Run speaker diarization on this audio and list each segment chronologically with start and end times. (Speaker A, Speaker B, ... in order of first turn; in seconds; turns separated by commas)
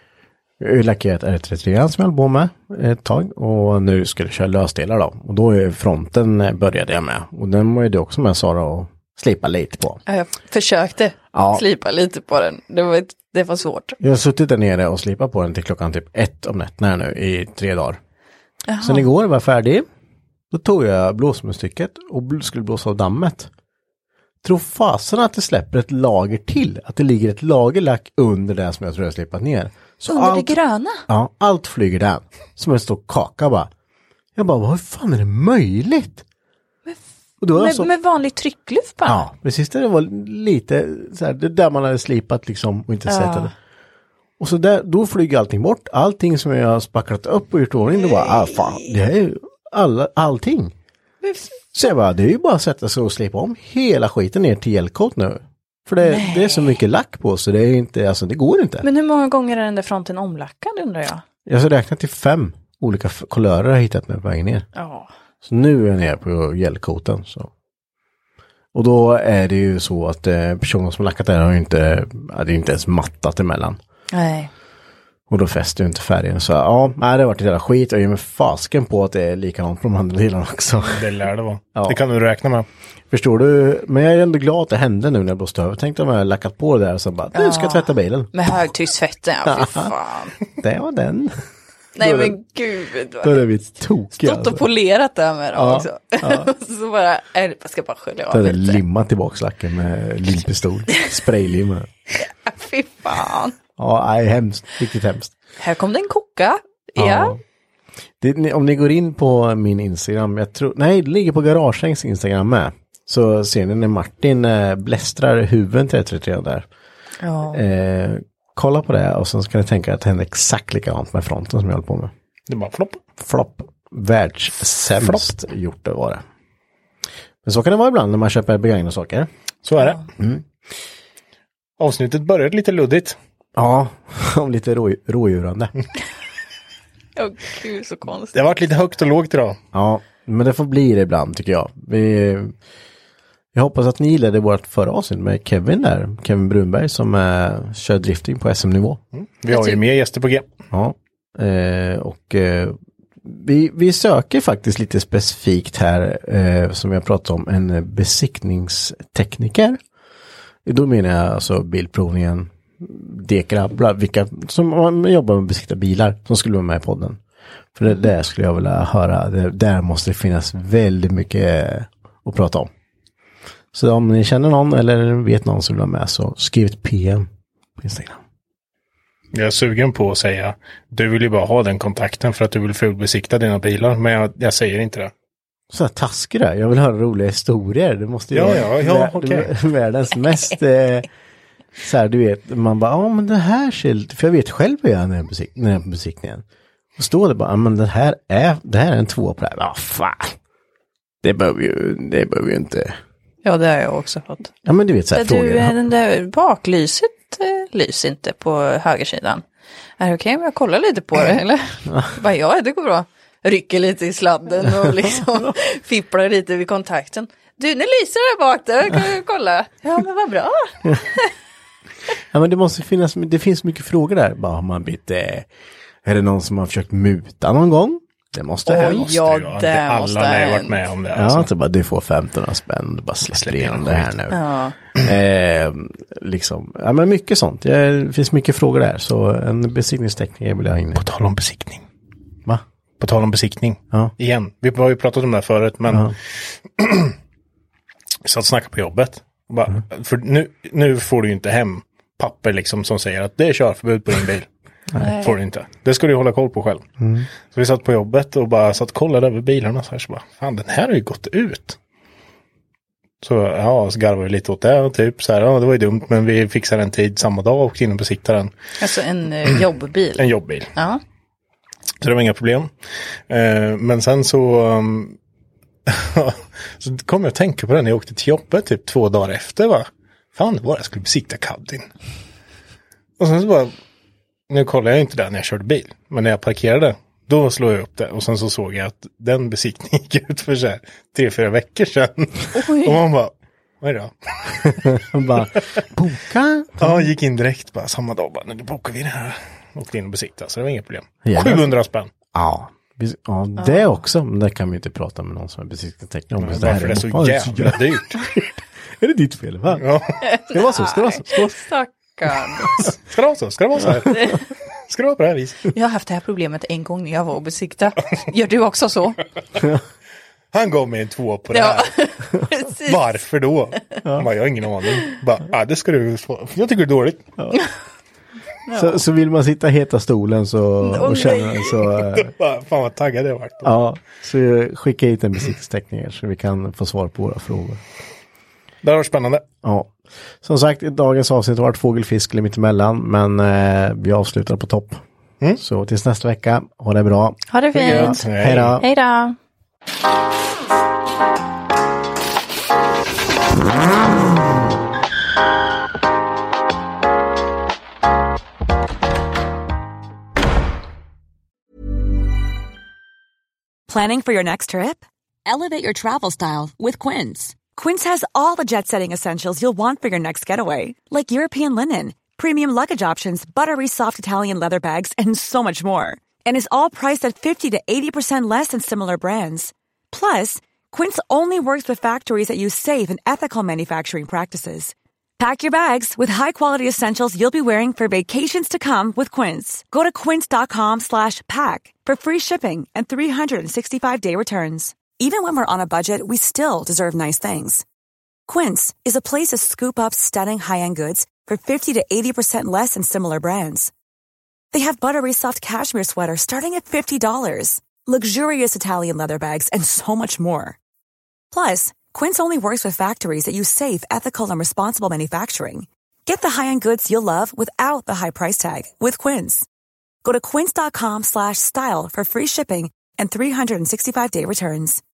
Speaker A: 0.6-10.0, Speaker B: 10.1-14.0, Speaker A: 11.3-11.6, Speaker A: 14.0-18.0, Speaker B: 18.7-19.1, Speaker A: 18.8-19.8, Speaker A: 20.5-23.5, Speaker A: 24.4-30.6, Speaker B: 30.1-31.0, Speaker A: 31.1-33.7, Speaker A: 34.3-36.2, Speaker A: 37.4-37.9, Speaker B: 37.5-39.2, Speaker A: 39.0-43.5, Speaker B: 43.1-43.5, Speaker A: 44.4-50.7, Speaker B: 48.4-48.9, Speaker B: 51.2-51.5, Speaker A: 51.7-58.9, Speaker B: 56.0-56.8, Speaker B: 58.8-61.2, Speaker A: 61.5-64.7, Speaker B: 64.7-65.1, Speaker A: 65.4-67.5, Speaker A: 68.7-73.8, Speaker B: 74.1-74.5, Speaker A: 75.3-81.1, Speaker C: 80.9-82.7, Speaker A: 81.7-82.0, Speaker A: 83.1-88.3, Speaker B: 87.3-90.3, Speaker A: 89.4-89.9, Speaker A: 90.6-91.4, Speaker B: 92.0-93.5, Speaker A: 92.0-92.4, Speaker A: 93.2-94.6, Speaker B: 94.2-98.8, Speaker A: 95.5-96.5, Speaker A: 98.3-101.9, Speaker B: 102.2-103.5, Speaker A: 103.8-105.3, Speaker B: 105.6-107.4, Speaker A: 107.0-107.4, Speaker A: 108.2-116.7, Speaker B: 117.2-117.6, Speaker A: 117.5-122.1, Speaker C: 122.5-123.0, Speaker A: 123.2-126.2, Speaker A: 127.4-129.3, Speaker C: 129.6-130.0, Speaker B: 129.8-130.0, Speaker A: 130.2-130.4, Speaker C: 131.8-133.2, Speaker A: 133.5-135.7, Speaker B: 137.2-138.3, Speaker C: 138.3-139.6, Speaker A: 139.7-142.5, Speaker A: 143.5-149.0, Speaker C: 149.1-150.5, Speaker B: 149.5-149.8, Speaker A: 150.7-159.8, Speaker A: 160.6-167.2, Speaker A: 167.8-172.7, Speaker A: 173.7-178.2, Speaker C: 179.3-185.1, Speaker A: 185.7-191.1, Speaker C: 188.3-189.5, Speaker A: 191.8-196.4, Speaker A: 197.0-200.3, Speaker A: 201.2-202.9, Speaker B: 203.4-204.5, Speaker A: 204.6-205.8, Speaker B: 205.1-209.4, Speaker B: 210.0-221.3, Speaker A: 222.3-225.5, Speaker A: 226.0-229.2, Speaker B: 228.7-230.8, Speaker C: 228.7-231.5, Speaker A: 231.1-241.0, Speaker C: 233.3-234.1, Speaker B: 234.3-234.7, Speaker C: 240.9-241.8, Speaker C: 243.0-247.1, Speaker A: 245.9-246.1, Speaker C: 248.2-254.5, Speaker B: 255.0-255.3, Speaker C: 255.1-256.9, Speaker A: 257.0-257.3, Speaker C: 257.4-261.8, Speaker C: 263.2-268.5, Speaker B: 268.8-271.0, Speaker C: 270.2-270.7, Speaker C: 272.0-272.7, Speaker C: 273.3-275.1, Speaker C: 275.9-281.9, Speaker C: 283.2-283.7, Speaker C: 284.5-295.6, Speaker B: 292.5-293.0, Speaker A: 294.9-297.0, Speaker C: 296.8-302.1, Speaker A: 301.2-301.8, Speaker A: 302.3-311.6, Speaker B: 303.6-303.9, Speaker C: 306.4-308.2, Speaker C: 309.7-310.2, Speaker B: 310.2-312.7, Speaker C: 312.8-315.7, Speaker B: 315.7-319.2, Speaker C: 320.5-321.9, Speaker B: 321.5-323.0, Speaker C: 322.8-327.3, Speaker B: 328.6-329.0, Speaker A: 328.7-332.3, Speaker B: 330.8-331.8, Speaker C: 332.1-333.7, Speaker A: 333.6-337.8, Speaker C: 338.8-339.4, Speaker A: 339.6-339.9, Speaker A: 340.4-345.0, Speaker A: 345.6-348.8, Speaker B: 347.5-348.2, Speaker C: 347.7-348.8, Speaker B: 348.8-349.4, Speaker D: 363.9-397.8, Speaker D: 398.5-403.9, Speaker D: 404.7-410.8, Speaker D: 411.5-419.6, Speaker D: 420.2-425.0